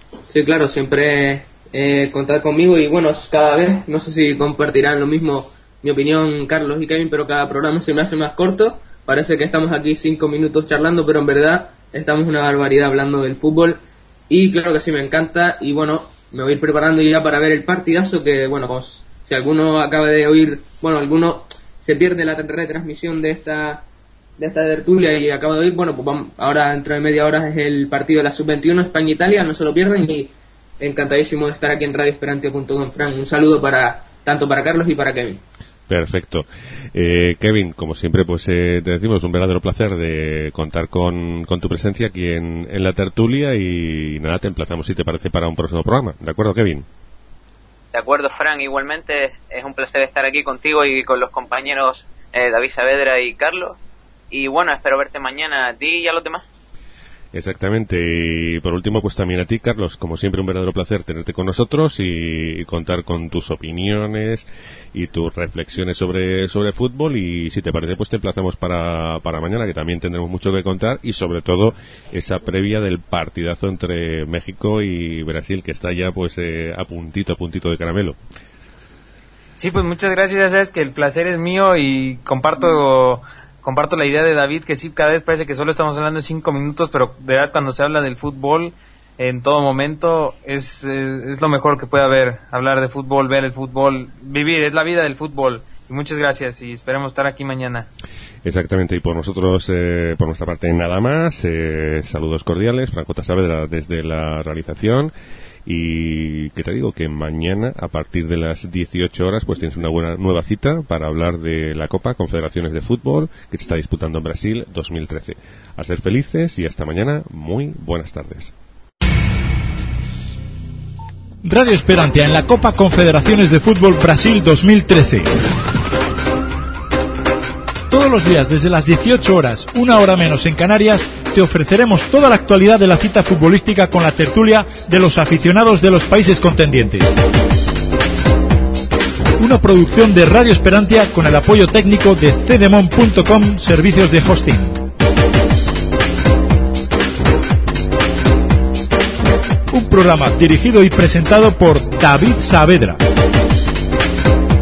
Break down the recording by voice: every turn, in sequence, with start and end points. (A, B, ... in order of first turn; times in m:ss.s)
0:00.3-0:23.8 A
0:24.4-0:35.4 A
0:35.9-0:46.8 B
0:47.9-0:53.8 C
0:54.3-0:56.4 C
0:57.3-1:18.2 B
1:19.6-1:37.9 D
1:38.4-1:45.1 B
1:45.6-1:58.5 B
2:01.4-2:05.4 E
2:07.9-2:17.2 E
2:19.4-2:24.8 E
2:29.7-2:33.0 E